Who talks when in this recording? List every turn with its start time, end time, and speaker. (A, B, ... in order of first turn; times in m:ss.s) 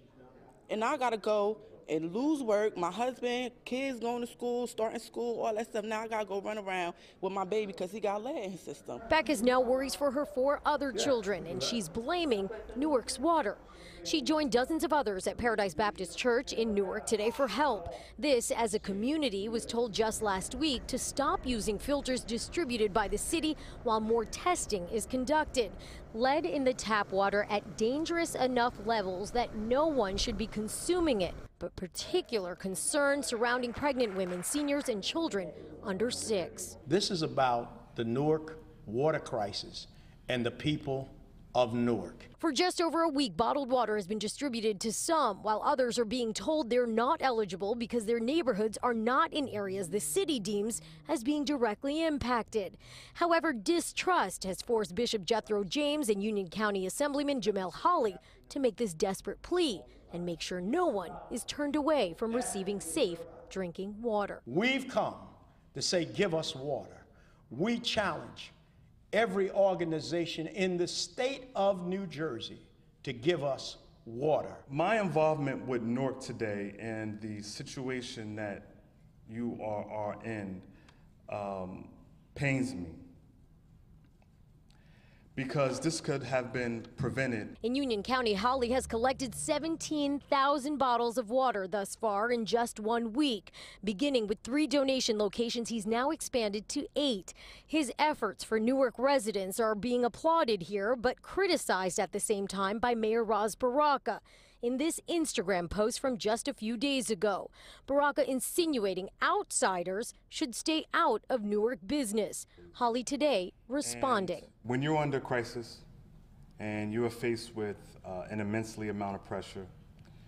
0:00.7-0:09.0 A
0:09.1-0:36.8 B
0:36.8-0:42.3 C
0:42.4-1:04.4 B
1:04.4-1:08.5 C
1:09.1-1:14.6 C
1:14.7-1:20.7 D
1:21.3-1:23.1 D
1:25.3-1:27.6 D
1:27.6-1:54.5 B
1:53.8-1:55.8 D
1:56.6-1:59.7 D